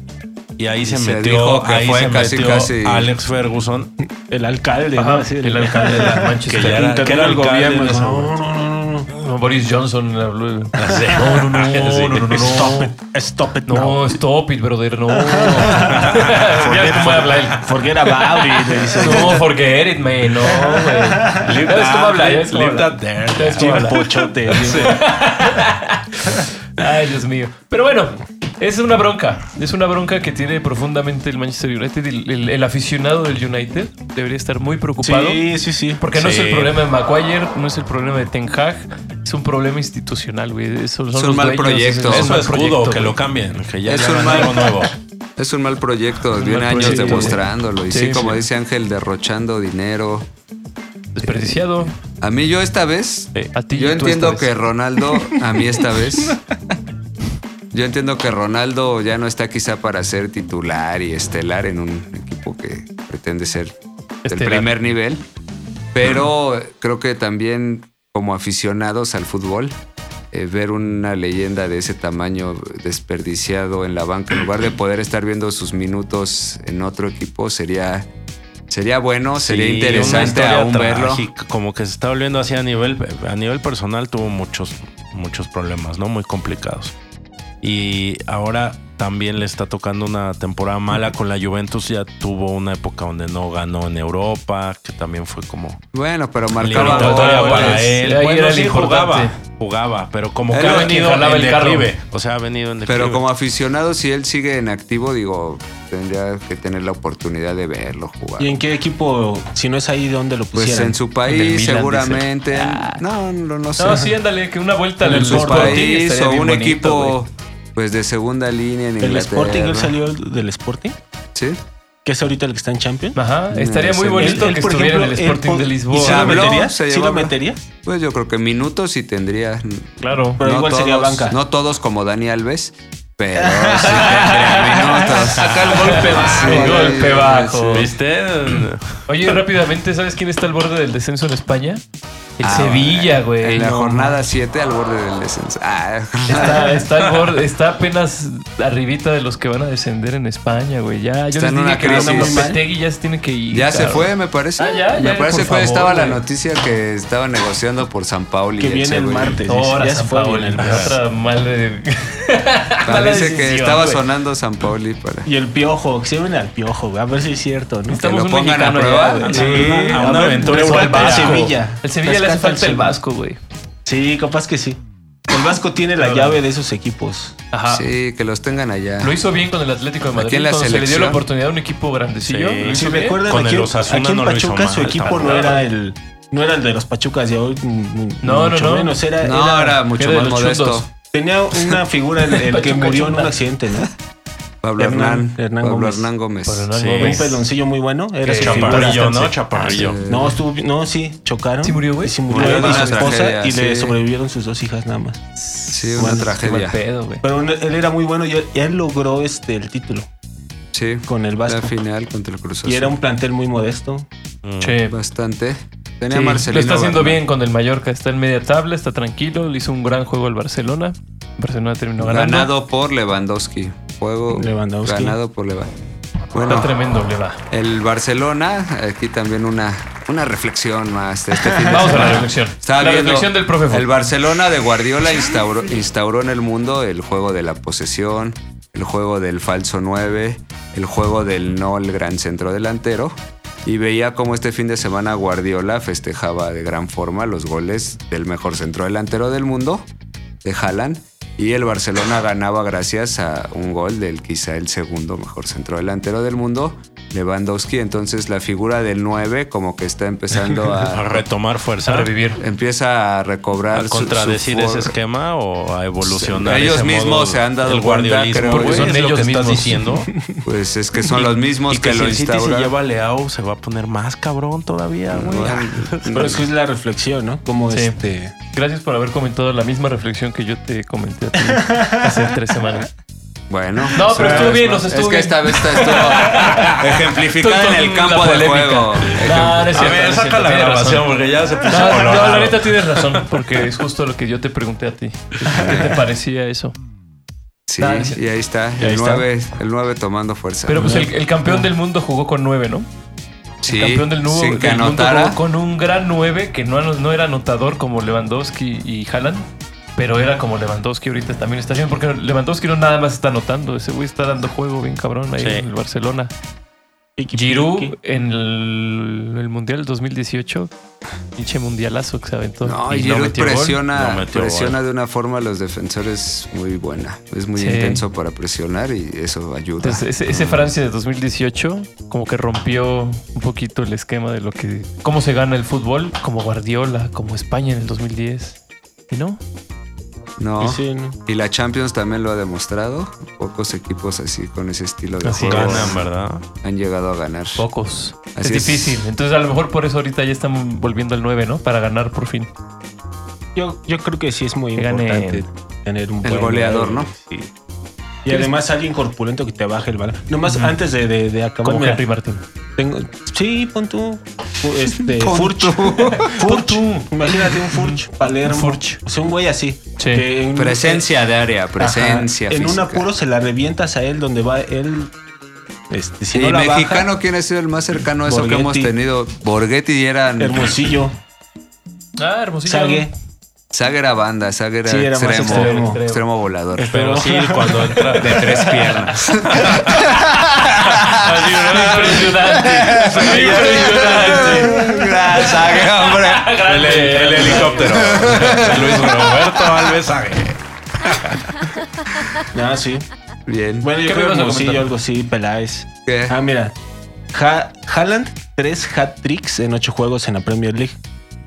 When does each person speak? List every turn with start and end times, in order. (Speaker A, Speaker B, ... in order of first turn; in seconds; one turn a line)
Speaker A: 0.6-3.9
Speaker B: 0.8-3.1
Speaker C: 4.0-9.1
Speaker D: 4.9-7.0
Speaker A: 6.5-8.4
Speaker D: 9.1-12.9
Speaker A: 10.8-12.5
Speaker C: 12.3-14.2
Speaker D: 13.7-43.2
Speaker C: 15.1-19.5
Speaker A: 15.6-17.6
Speaker C: 20.4-21.5
Speaker A: 21.4-24.9
Speaker C: 23.6-25.1
Speaker C: 35.0-36.0
Speaker A: 36.1-36.8
Speaker B: 41.1-42.4
Speaker A: 42.1-44.9
Speaker B: 43.9-44.7
Speaker D: 44.0-44.7
Speaker B: 45.4-50.3
Speaker D: 46.3-48.4
Speaker C: 46.8-47.3
Speaker D: 51.1-51.9
Speaker B: 52.2-56.4
Speaker D: 53.5-54.5
Speaker B: 57.7-65.2
Speaker D: 64.2-64.7
Speaker B: 65.9-69.8
Speaker B: 70.3-78.1
Speaker B: 78.7-81.3
Speaker A: 79.4-86.9
Speaker A: 87.6-95.8
Speaker B: 95.9-97.9
Speaker A: 96.5-103.2
Speaker D: 96.7-99.3
Speaker B: 100.5-100.9
Speaker D: 100.5-101.9
Speaker B: 102.8-108.6
Speaker C: 108.4-111.0
Speaker B: 110.5-114.1
Speaker D: 111.2-113.0
Speaker D: 113.8-117.2
Speaker C: 115.0-115.9
Speaker B: 115.1-119.9
Speaker C: 119.0-121.0
Speaker B: 121.3-121.6
Speaker C: 122.0-123.2
Speaker D: 123.1-126.6
Speaker B: 123.5-124.5
Speaker C: 124.1-127.6
Speaker B: 125.9-137.9
Speaker D: 130.0-130.4
Speaker C: 130.4-131.4
Speaker C: 133.3-135.3
Speaker D: 134.1-134.7
Speaker D: 135.4-137.9
Speaker C: 136.3-136.9
Speaker A: 137.7-139.0
Speaker D: 139.1-141.8
Speaker D: 142.4-144.1
Speaker B: 142.4-146.6
Speaker D: 146.3-156.2
Speaker C: 146.3-146.8
Speaker B: 151.3-152.5
Speaker C: 151.8-152.6
Speaker B: 153.5-159.4
Speaker C: 158.6-161.0
Speaker D: 159.4-164.0
Speaker A: 160.6-160.9
Speaker B: 162.8-165.3
Speaker C: 165.2-168.0
Speaker D: 167.9-173.4
Speaker B: 167.9-169.4
Speaker C: 169.2-172.9
Speaker A: 169.2-171.5
Speaker C: 173.8-177.4
Speaker D: 176.0-176.3
Speaker D: 177.5-177.9
Speaker B: 177.7-179.2
Speaker D: 179.0-183.2
Speaker B: 180.1-181.2
Speaker A: 182.2-185.5
Speaker C: 182.7-189.8
Speaker D: 185.0-185.7
Speaker D: 188.2-189.0
Speaker B: 189.2-190.9
Speaker D: 189.9-190.9
Speaker C: 191.1-193.9
Speaker D: 192.3-193.4
Speaker B: 194.6-196.7
Speaker C: 194.8-196.1
Speaker D: 196.4-197.4
Speaker A: 196.7-197.3
Speaker C: 197.0-199.3
Speaker D: 198.2-199.1
Speaker A: 198.3-200.0
Speaker B: 199.5-200.4
Speaker C: 200.1-205.2
Speaker D: 201.6-203.2
Speaker B: 202.3-204.0
Speaker D: 205.4-207.2
Speaker B: 205.7-206.8
Speaker C: 206.0-206.4
Speaker C: 207.2-210.1
Speaker B: 210.7-213.0
Speaker C: 211.1-211.7
Speaker C: 212.6-214.1
Speaker A: 214.4-214.8
Speaker D: 214.6-214.9
Speaker B: 214.9-217.2
Speaker D: 216.1-222.5
Speaker B: 222.0-225.7
Speaker C: 224.3-225.2
Speaker B: 226.3-226.7
Speaker D: 226.4-227.4
Speaker B: 227.5-249.9
Speaker C: 231.5-232.2
Speaker D: 231.7-233.9
Speaker B: 250.4-261.2
Speaker A: 260.9-262.1
Speaker D: 261.8-262.4
Speaker B: 262.4-264.9
Speaker A: 263.7-270.1
Speaker B: 266.0-268.9
Speaker D: 268.3-269.8
Speaker C: 270.0-270.4
Speaker B: 270.4-272.7
Speaker A: 271.1-276.4
Speaker B: 275.1-276.4
Speaker C: 276.1-278.3
Speaker D: 277.7-278.0
Speaker D: 278.5-282.9
Speaker B: 283.5-290.0
Speaker D: 283.9-291.1
Speaker C: 284.2-284.6
Speaker A: 286.4-287.1
Speaker A: 289.7-293.6
Speaker D: 291.6-296.7
Speaker B: 295.5-296.0
Speaker C: 295.5-295.8
Speaker B: 297.7-301.1
Speaker D: 297.8-298.2
Speaker C: 298.8-299.2
Speaker D: 300.6-302.9
Speaker C: 300.8-301.7
Speaker B: 303.6-305.4
Speaker D: 303.6-316.3
Speaker A: 315.4-315.6
Speaker C: 317.2-318.0
Speaker D: 317.3-320.7
Speaker D: 321.4-323.8
Speaker B: 322.6-330.7
Speaker A: 323.9-324.8
Speaker D: 327.6-328.0
Speaker D: 329.8-338.6
Speaker D: 339.1-339.4
Speaker B: 340.4-346.0
Speaker C: 340.6-341.2
Speaker D: 345.2-345.9
Speaker A: 345.4-346.4
Speaker B: 346.6-347.6
Speaker D: 347.6-352.5
Speaker B: 348.3-349.1
Speaker C: 353.6-357.1
Speaker D: 354.8-355.4
Speaker B: 356.2-357.1
Speaker C: 358.2-362.0
Speaker D: 358.3-358.5
Speaker D: 360.5-360.8
Speaker D: 361.6-362.4
Speaker C: 362.8-371.1
Speaker B: 364.9-366.4
Speaker D: 366.2-369.0
Speaker D: 370.0-370.3
Speaker B: 370.5-373.1
Speaker C: 371.8-375.1
Speaker C: 375.9-377.1
Speaker B: 376.3-380.8
Speaker C: 378.2-378.9
Speaker C: 380.4-381.1
Speaker D: 382.2-383.1
Speaker C: 382.6-383.1
Speaker B: 383.7-387.1
Speaker C: 384.9-386.0
Speaker D: 385.3-386.3
Speaker C: 386.8-387.8
Speaker A: 386.8-388.8
Speaker D: 387.6-389.3
Speaker B: 388.1-396.6
Speaker A: 389.4-390.1
Speaker D: 391.0-399.1
Speaker A: 393.2-394.0
Speaker C: 394.5-395.1
Speaker A: 396.6-401.3
Speaker B: 397.6-399.3
Speaker C: 402.5-403.1
Speaker B: 403.4-403.9
Speaker C: 403.8-406.7
Speaker D: 404.0-404.9
Speaker B: 406.0-406.4
Speaker C: 407.3-411.0